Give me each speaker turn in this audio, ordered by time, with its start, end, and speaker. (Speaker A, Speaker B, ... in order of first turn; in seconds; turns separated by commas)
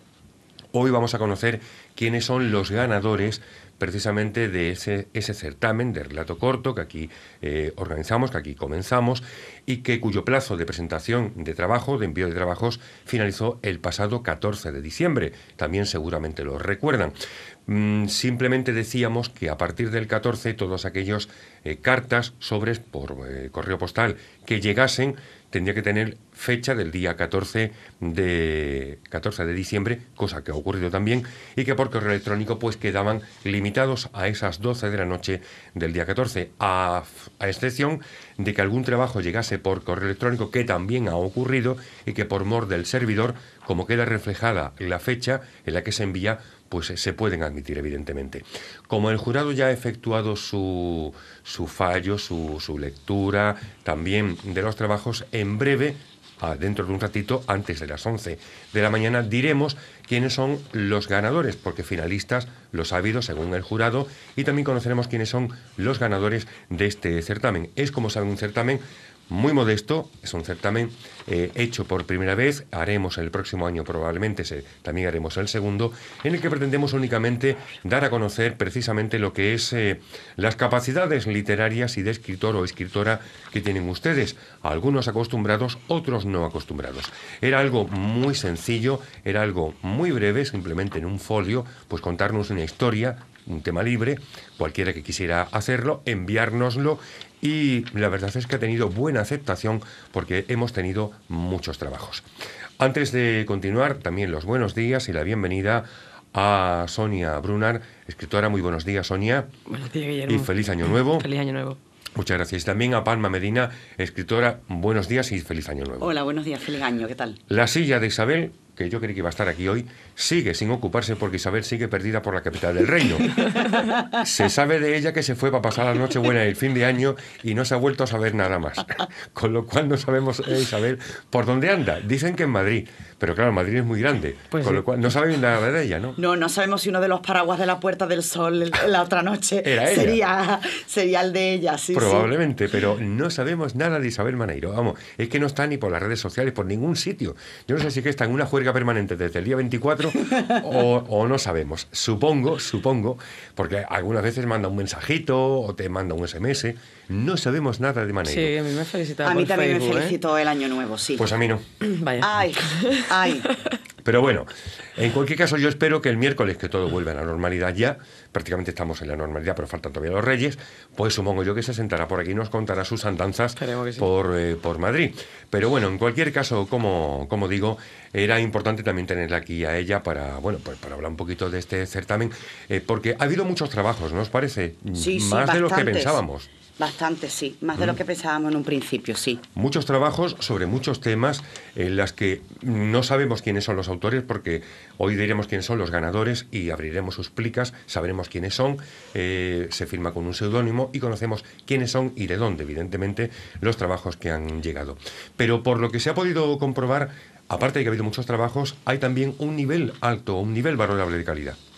Speaker A: 0.7-17.1, Speaker A: 17.7-102.2, Speaker A: 102.8-109.5, Speaker B: 109.7-111.8, Speaker A: 110.3-111.2, Speaker A: 112.2-116.1, Speaker C: 116.0-117.4, Speaker A: 117.5-123.5, Speaker A: 124.1-136.2, Speaker B: 134.5-134.8, Speaker C: 136.2-142.3, Speaker A: 139.6-140.2, Speaker A: 141.9-158.5, Speaker B: 158.2-160.2, Speaker C: 159.2-161.3, Speaker A: 161.2-161.6, Speaker B: 161.8-163.1, Speaker C: 162.2-163.5, Speaker A: 164.0-186.5, Speaker B: 173.6-174.1, Speaker C: 184.9-186.2, Speaker C: 186.8-189.4, Speaker A: 189.6-211.6